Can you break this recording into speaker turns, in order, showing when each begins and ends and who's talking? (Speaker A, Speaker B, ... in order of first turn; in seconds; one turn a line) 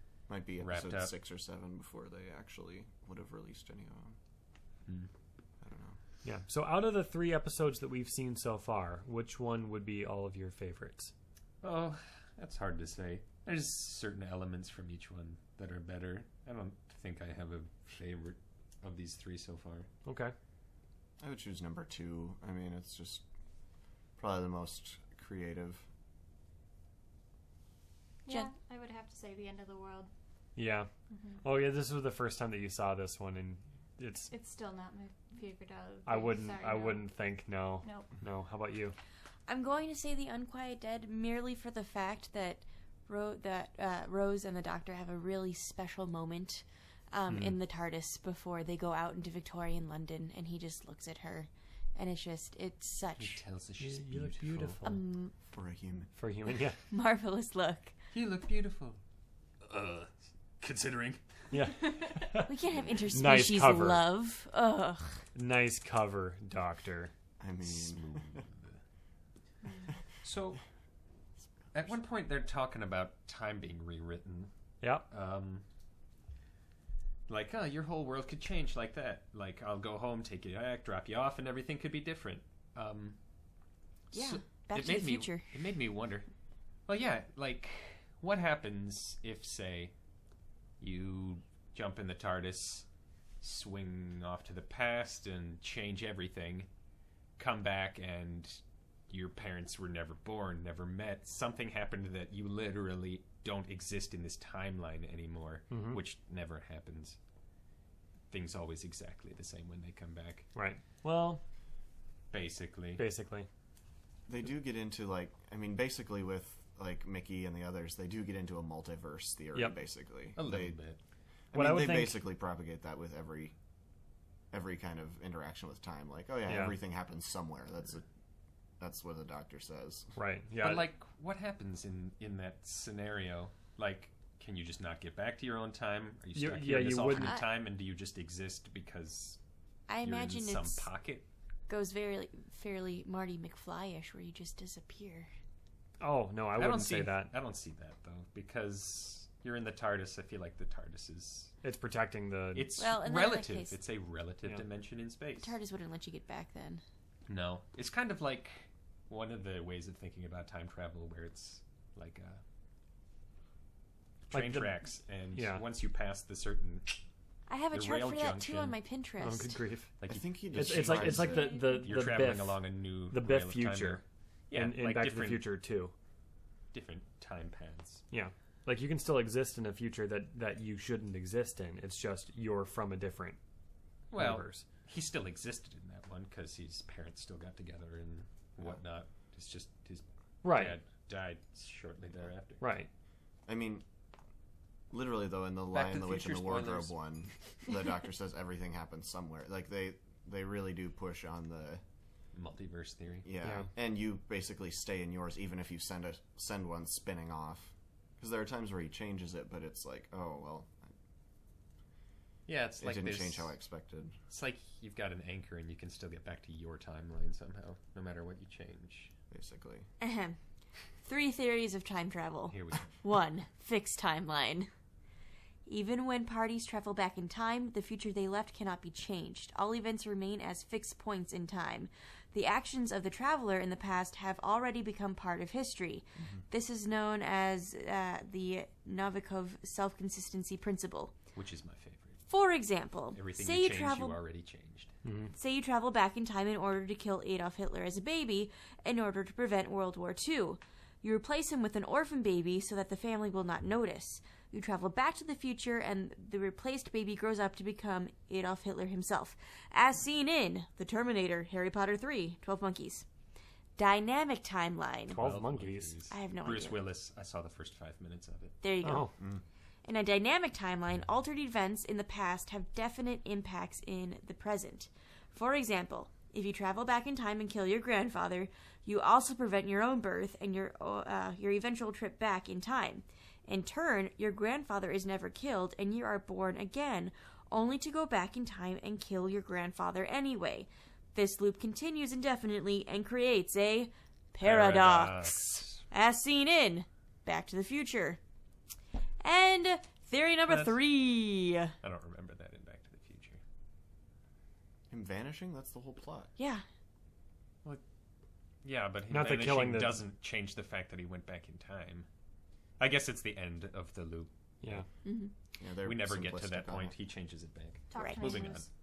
Speaker A: 0.3-4.2
Speaker B: 0.6-1.1
Speaker A: 5.6-6.0
Speaker C: 6.2-11.1
Speaker B: 11.6-19.9
Speaker C: 20.1-20.3
Speaker A: 21.2-23.2
Speaker A: 24.2-25.9
Speaker D: 28.2-30.1
Speaker C: 30.6-30.9
Speaker D: 31.1-31.4
Speaker C: 31.4-34.3
Speaker D: 34.3-37.1
Speaker C: 36.1-39.0
Speaker D: 37.8-38.1
Speaker E: 39.5-53.4
Speaker C: 47.3-47.6
Speaker B: 53.2-54.8
Speaker C: 53.8-55.0
Speaker E: 54.8-55.3
Speaker A: 55.5-56.1
Speaker C: 56.1-56.8
Speaker E: 56.9-57.9
Speaker B: 58.1-59.0
Speaker B: 59.6-61.7
Speaker C: 61.5-62.5
Speaker E: 62.4-65.2
Speaker C: 63.1-64.1
Speaker C: 65.3-67.1
Speaker A: 67.4-68.4
Speaker B: 67.6-68.8
Speaker B: 70.2-70.6
Speaker B: 71.7-74.5
Speaker B: 75.1-75.6
Speaker B: 77.3-83.2
Speaker E: 84.1-85.5
Speaker B: 84.1-86.3
Speaker B: 86.9-90.0
Speaker B: 90.8-92.9
Speaker B: 93.4-96.7
Speaker B: 97.4-107.2
Speaker C: 105.7-106.0
Speaker B: 108.3-110.5
Speaker C: 110.5-111.4
Speaker B: 112.3-113.0
Speaker C: 113.0-113.5
Speaker A: 114.3-120.8
Speaker B: 120.4-121.0
Speaker A: 121.5-123.5
Speaker C: 121.5-122.2
Speaker A: 124.5-128.1
Speaker C: 126.5-126.8
Speaker A: 128.8-130.1
Speaker C: 130.2-130.8
Speaker B: 130.6-139.4
Speaker C: 136.4-137.3
Speaker E: 137.2-137.5
Speaker E: 139.9-140.9
Speaker B: 140.0-141.3
Speaker E: 141.7-145.3
Speaker C: 146.0-147.3
Speaker B: 146.6-151.5
Speaker C: 151.6-152.7
Speaker B: 152.6-155.6
Speaker E: 152.8-153.8
Speaker E: 155.4-156.8
Speaker B: 157.3-162.4
Speaker B: 164.3-167.0
Speaker C: 164.3-165.6
Speaker E: 167.5-169.6
Speaker B: 167.7-168.8
Speaker C: 169.2-169.9
Speaker B: 170.0-175.5
Speaker A: 170.1-171.5
Speaker C: 170.5-175.9
Speaker E: 171.6-171.8
Speaker B: 176.7-178.0
Speaker C: 178.1-183.4
Speaker B: 184.1-192.6
Speaker C: 184.1-184.7
Speaker C: 190.4-190.8
Speaker C: 192.6-192.9
Speaker A: 193.5-193.8
Speaker A: 194.9-201.8
Speaker B: 195.7-196.9
Speaker B: 202.3-203.3
Speaker A: 203.2-210.9
Speaker C: 203.4-203.7
Speaker B: 212.5-213.5
Speaker A: 212.8-214.2
Speaker B: 214.3-219.1
Speaker A: 219.3-219.9
Speaker E: 220.0-220.4
Speaker E: 221.0-224.7
Speaker B: 222.5-223.0
Speaker E: 225.7-241.2
Speaker B: 241.3-242.2
Speaker E: 242.3-244.2
Speaker B: 243.1-245.0
Speaker C: 245.0-245.3
Speaker E: 245.3-263.1
Speaker E: 263.8-265.2
Speaker C: 265.1-265.9
Speaker B: 265.1-268.6
Speaker E: 266.1-266.8
Speaker E: 268.6-269.2
Speaker C: 268.8-269.1
Speaker E: 269.9-298.2
Speaker B: 294.4-295.9
Speaker E: 299.2-301.7
Speaker B: 300.5-300.8
Speaker B: 301.8-303.4
Speaker A: 304.9-306.3
Speaker E: 306.4-306.6
Speaker B: 308.6-312.1
Speaker C: 309.1-310.0
Speaker B: 312.8-314.3
Speaker E: 315.1-315.3
Speaker A: 315.6-316.9
Speaker B: 315.8-318.7
Speaker D: 317.9-318.7
Speaker E: 317.9-318.4